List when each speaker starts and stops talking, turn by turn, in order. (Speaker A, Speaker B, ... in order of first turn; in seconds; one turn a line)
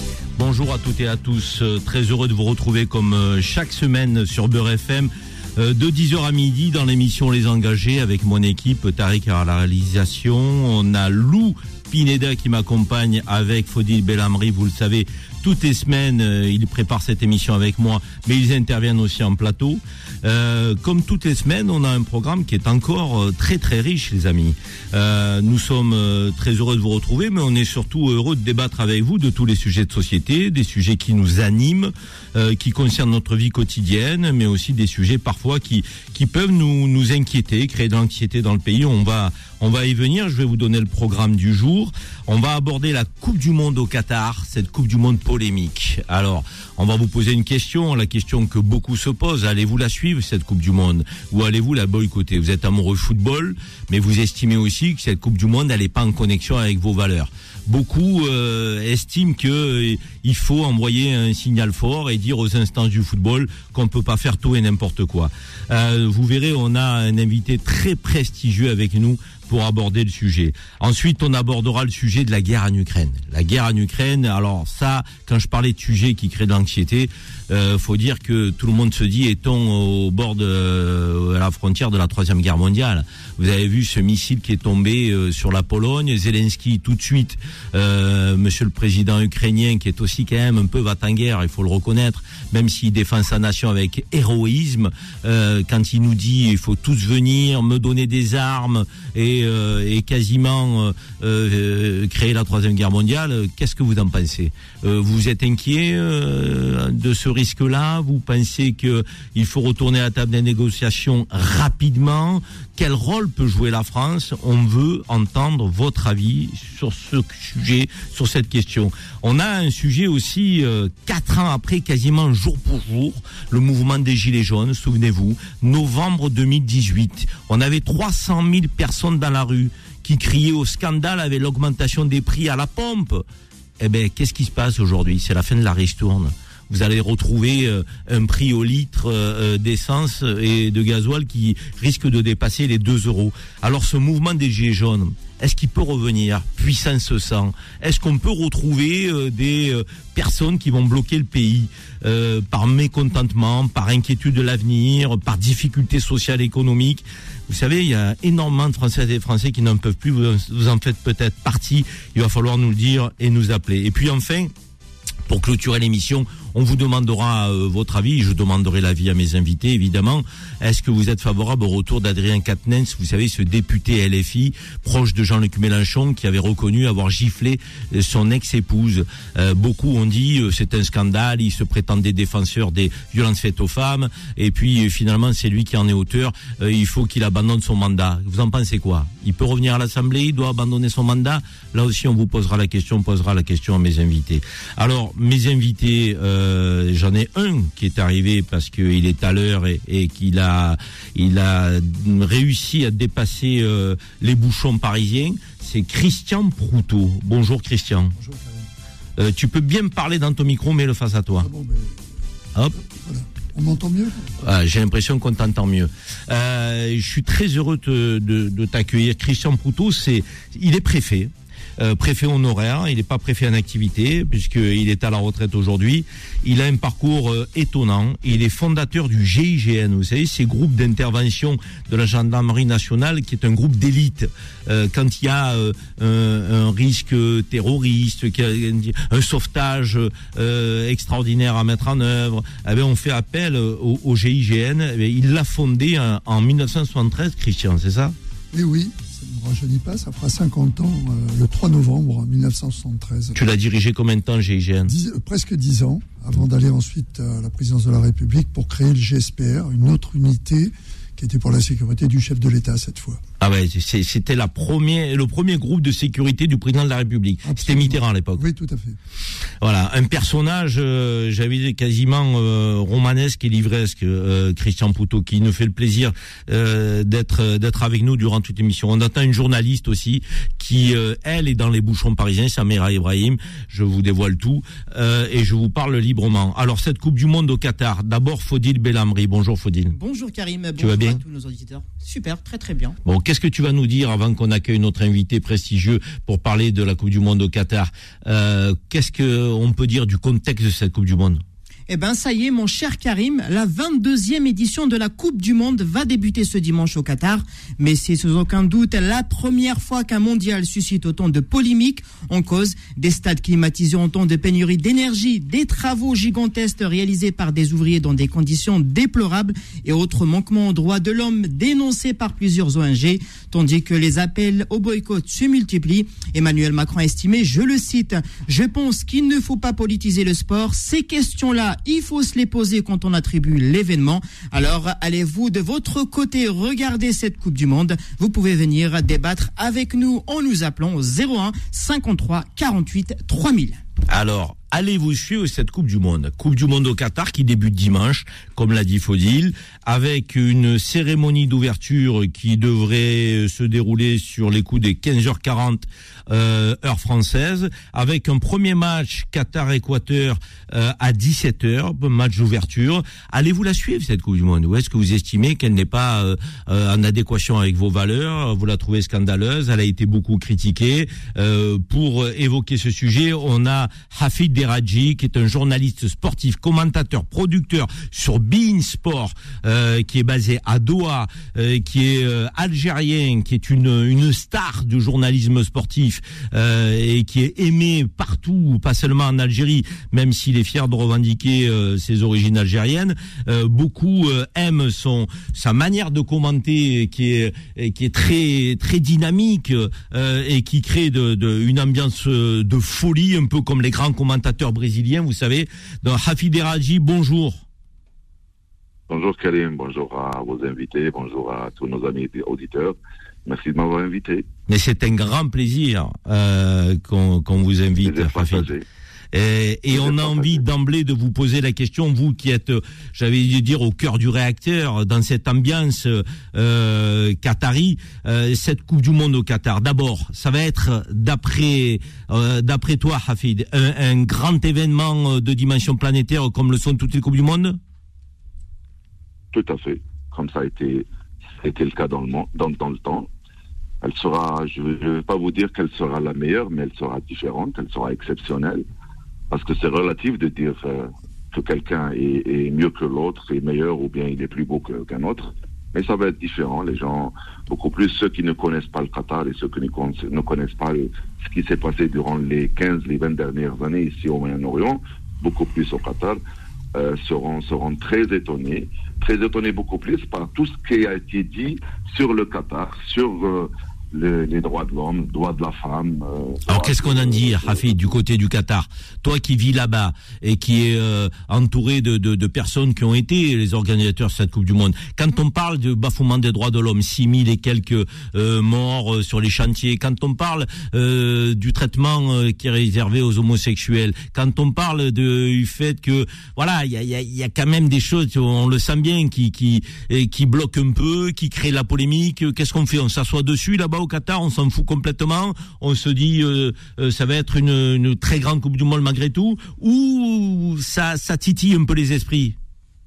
Speaker A: 0.4-133.2
Speaker A: 133.8-164.5
Speaker A: 165.3-208.2
Speaker B: 208.2-208.7
Speaker A: 209.2-211.5
Speaker B: 211.4-212.0
Speaker B: 212.8-214.3
Speaker A: 214.4-248.2
Speaker B: 248.5-253.4
Speaker A: 253.3-254.9
Speaker B: 254.9-263.2
Speaker A: 263.4-268.4
Speaker B: 267.4-269.0
Speaker A: 269.6-289.9
Speaker C: 289.9-293.0
Speaker A: 290.8-291.2
Speaker A: 293.1-301.4
Speaker C: 301.9-343.8
Speaker A: 344.1-407.6
Speaker D: 409.1-414.5
Speaker A: 414.7-418.7
Speaker D: 418.0-418.9
Speaker A: 419.3-437.8
Speaker D: 419.9-420.6
Speaker D: 439.5-441.1
Speaker D: 441.6-443.3
Speaker D: 444.0-448.8
Speaker D: 449.5-466.4
Speaker D: 466.9-477.9
Speaker A: 476.7-512.5